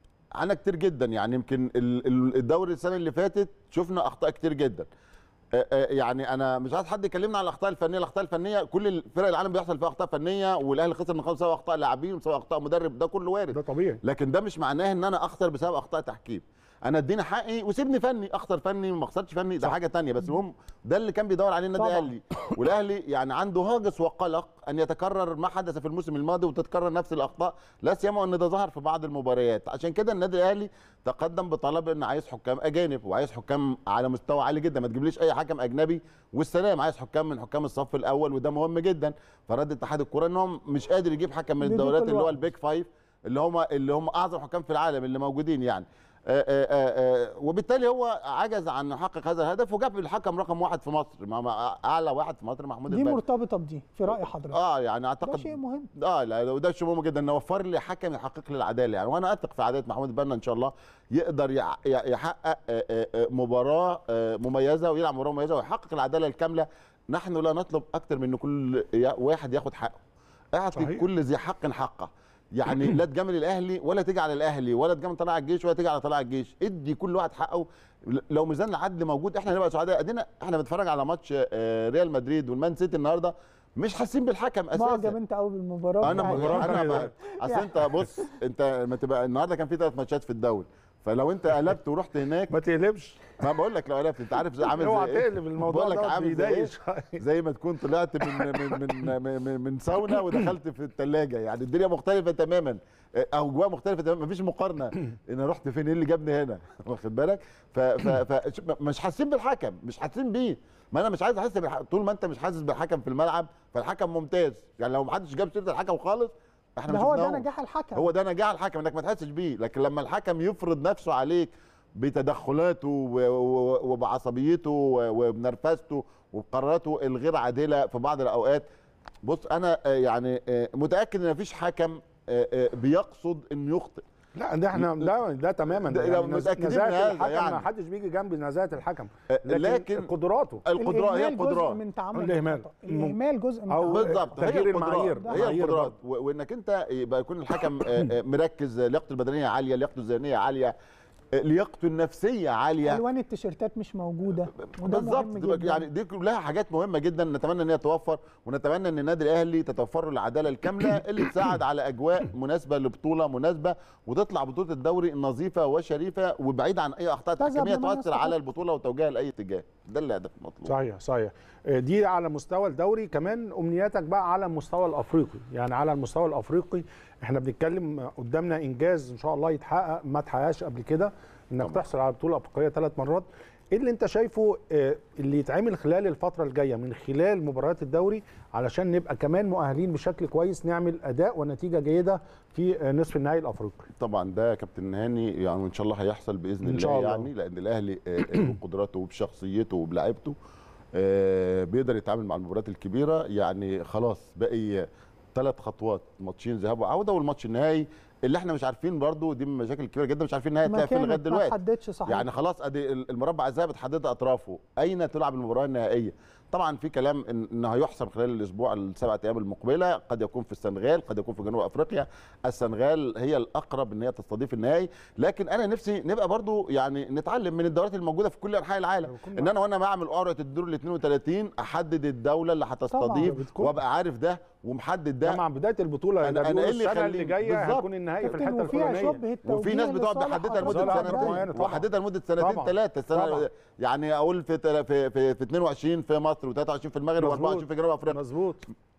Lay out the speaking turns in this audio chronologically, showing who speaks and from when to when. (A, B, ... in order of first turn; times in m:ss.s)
0:00.4-0:04.9 A
0:05.5-0:53.2 A
0:13.5-0:14.0 B
0:21.8-0:22.1 C
0:41.6-0:42.3 C
0:52.9-0:54.6 C
0:54.1-1:10.0 A
0:55.2-0:55.9 C
1:10.5-1:25.1 A
1:10.8-1:11.0 B
1:24.7-1:27.8 C
1:26.0-1:27.1 B
1:26.0-1:32.5 A
1:32.5-1:33.4 B
1:33.4-2:08.6 A
1:34.8-1:37.2 B
1:56.9-1:58.1 C
2:09.2-2:14.0 A
2:14.4-2:20.6 B
2:14.7-2:15.1 A
2:15.8-2:17.6 A
2:19.3-2:20.1 A
2:20.6-2:21.8 A
2:20.8-2:24.2 C
2:22.1-2:23.2 B
2:23.7-2:25.9 B
2:23.9-2:30.7 A
2:25.2-2:25.5 C
2:31.3-2:33.0 A
2:32.8-2:35.8 C
2:34.6-2:50.7 A
2:47.4-2:48.4 C
2:50.6-3:13.9 B
3:14.0-3:20.4 A
3:16.6-3:17.3 B
3:21.0-3:31.6 A
3:30.6-3:32.3 C
3:32.1-3:55.4 A
3:49.1-3:49.5 B
3:52.9-3:53.3 C
3:53.2-3:53.7 B
3:55.2-3:59.2 B
3:56.2-3:57.9 A
3:58.2-4:01.4 C
3:58.6-4:08.2 A
4:00.6-4:01.9 B
4:02.4-4:03.4 B
4:07.2-4:08.6 B